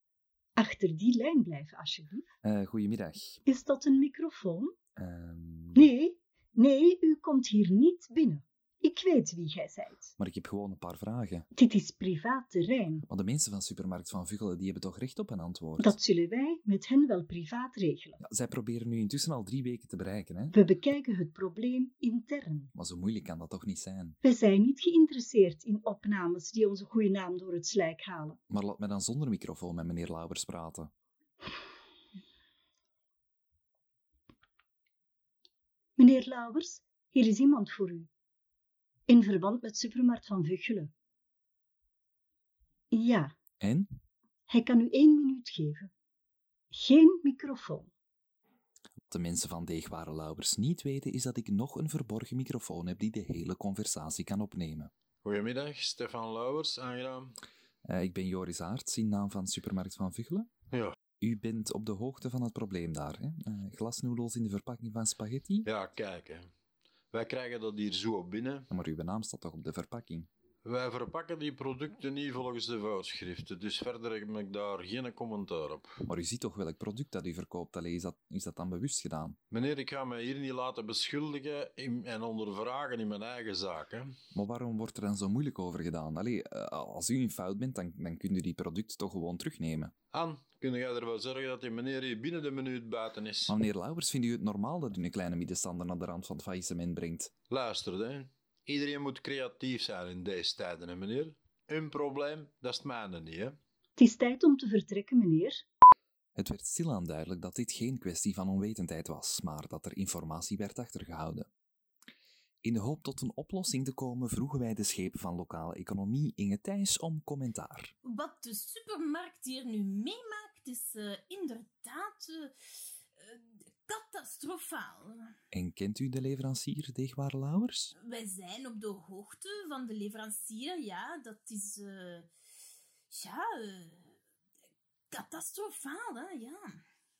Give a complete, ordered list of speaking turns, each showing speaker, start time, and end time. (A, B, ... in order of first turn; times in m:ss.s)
0:00.6-0:02.3 A
0:02.4-0:03.4 B
0:03.4-0:04.7 A
0:05.0-0:05.9 B
0:05.7-0:10.1 A
0:10.2-0:11.5 B
0:11.5-0:13.0 A
0:13.1-0:16.0 B
0:15.8-0:18.2 A
0:18.2-0:20.5 B
0:20.5-0:22.7 A
0:22.7-0:24.2 B
0:24.2-0:28.4 A
0:28.5-0:30.9 B
0:36.0-0:38.1 A
0:39.1-0:40.9 A
0:42.9-0:43.3 A
0:43.6-0:43.9 B
0:44.5-0:45.9 A
0:46.7-0:47.9 A
0:49.1-0:54.9 B
0:55.2-0:57.4 C
0:57.9-1:00.5 B
1:01.2-1:05.7 B
1:05.7-1:06.5 C
1:07.1-1:08.7 C
1:08.7-1:10.3 B
1:10.6-1:16.0 C
1:16.1-1:19.4 B
1:19.5-1:24.2 C
1:24.3-1:29.9 B
1:30.1-1:33.5 C
1:33.5-1:37.3 B
1:37.5-1:43.6 C
1:44.0-1:45.6 A
1:46.4-1:51.5 B
1:52.6-1:57.9 B
1:58.0-2:02.5 D
2:03.2-2:05.3 D
2:05.5-2:07.9 B
2:08.0-2:12.3 D
2:13.1-2:14.1 D
2:15.1-2:16.8 D